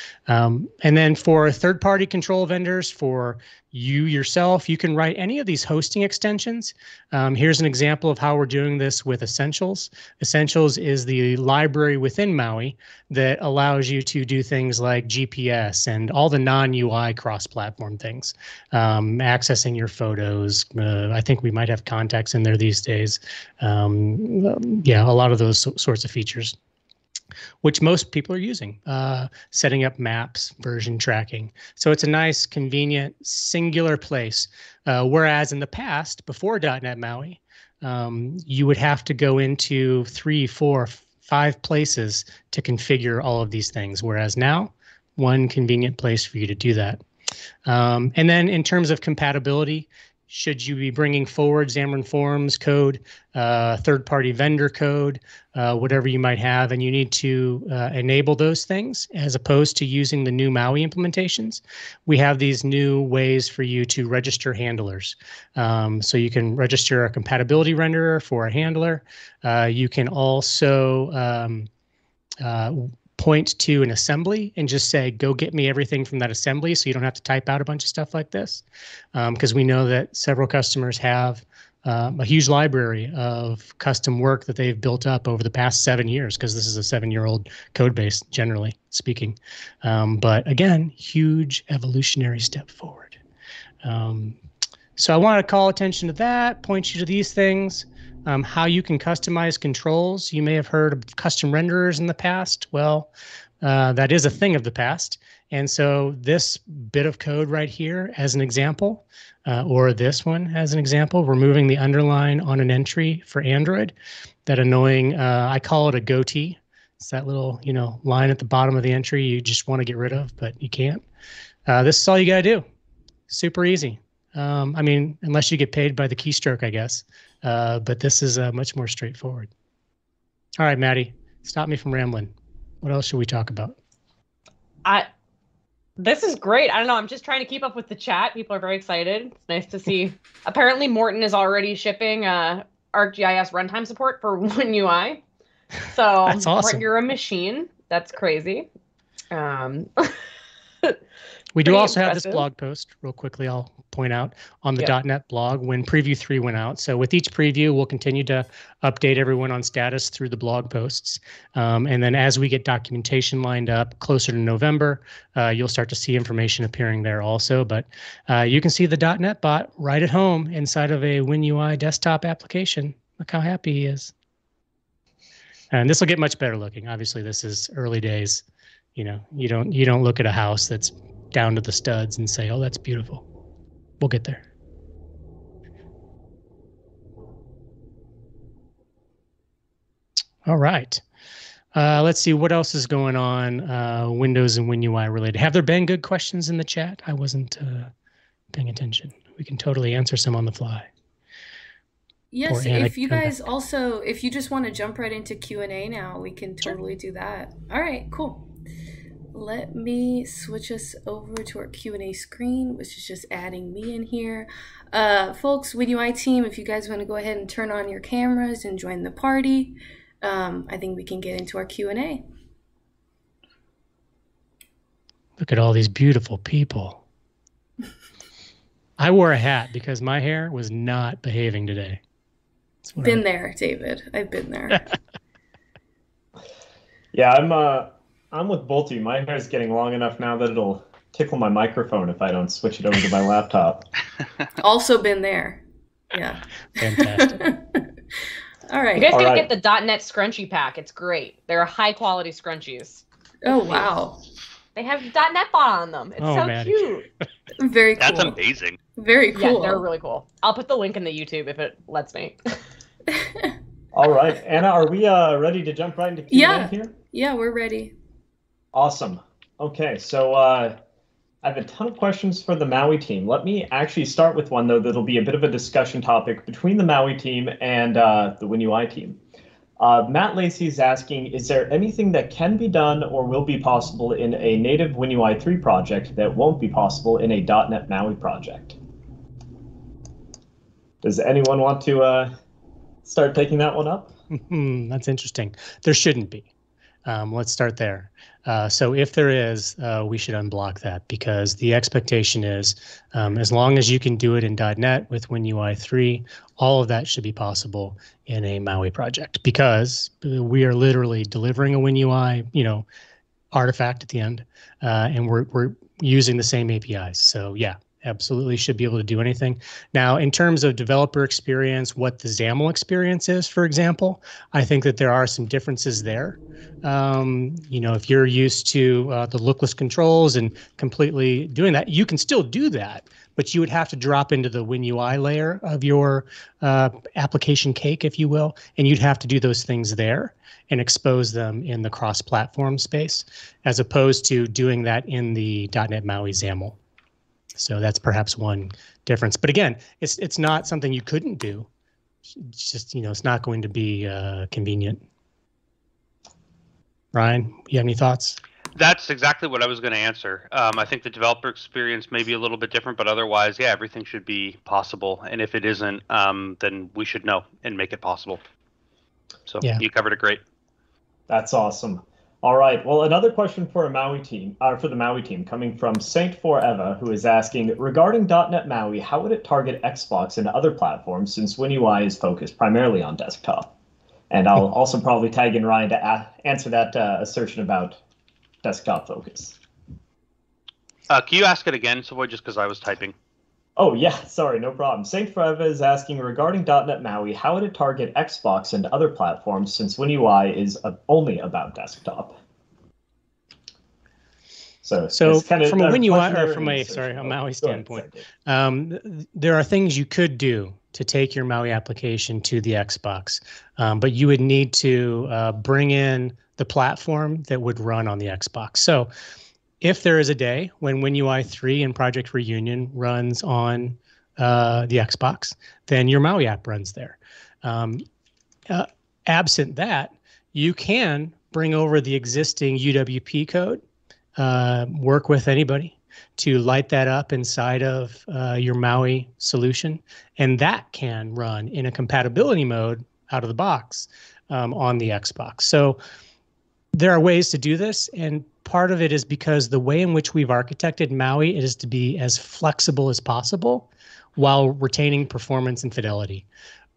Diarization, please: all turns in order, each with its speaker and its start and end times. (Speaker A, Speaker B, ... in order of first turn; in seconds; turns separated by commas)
Speaker A: 0.3-26.6, Speaker A: 27.6-47.0, Speaker A: 47.7-71.7, Speaker A: 72.4-78.6, Speaker A: 79.2-93.2, Speaker A: 93.8-94.4, Speaker A: 95.0-103.1, Speaker A: 103.6-113.9, Speaker A: 114.5-121.0, Speaker A: 121.7-122.7, Speaker A: 123.3-129.5, Speaker A: 130.6-133.8, Speaker B: 136.0-145.2, Speaker B: 145.9-148.7, Speaker A: 146.3-146.8, Speaker B: 149.3-150.2, Speaker A: 151.6-174.1, Speaker B: 151.6-152.4, Speaker A: 175.7-178.4, Speaker A: 179.0-183.2, Speaker A: 184.0-184.4, Speaker A: 190.5-191.0, Speaker A: 191.8-197.9, Speaker A: 198.5-200.9, Speaker C: 202.3-208.5, Speaker A: 202.5-203.3, Speaker C: 209.3-222.2, Speaker A: 225.4-227.0, Speaker A: 229.0-232.0, Speaker A: 232.9-233.2, Speaker C: 233.0-234.8, Speaker D: 237.1-243.9, Speaker C: 244.6-245.6, Speaker C: 246.1-247.8, Speaker A: 246.8-247.4, Speaker C: 248.7-249.1, Speaker B: 248.9-254.0, Speaker D: 249.1-249.5, Speaker C: 253.4-254.2, Speaker B: 254.8-257.1, Speaker A: 256.2-256.8, Speaker C: 257.6-258.4, Speaker E: 258.0-258.8, Speaker C: 259.0-259.9, Speaker B: 259.3-262.5, Speaker C: 263.2-263.5, Speaker D: 263.9-266.9, Speaker C: 266.3-267.9, Speaker D: 268.7-270.8, Speaker D: 271.4-279.2, Speaker D: 279.8-288.8, Speaker D: 291.0-292.3, Speaker D: 293.1-294.1, Speaker A: 294.3-296.5, Speaker A: 297.1-312.9, Speaker A: 313.5-346.8, Speaker A: 347.6-351.7, Speaker A: 352.4-355.0, Speaker A: 357.1-358.4, Speaker E: 358.8-368.4, Speaker E: 369.5-370.4, Speaker D: 371.3-383.7, Speaker D: 384.3-388.0, Speaker D: 388.6-389.6, Speaker E: 391.1-393.1, Speaker D: 393.8-402.4, Speaker D: 404.8-408.3, Speaker A: 405.1-419.1, Speaker A: 419.8-428.0, Speaker A: 428.7-433.8, Speaker A: 434.4-446.0, Speaker A: 446.9-456.5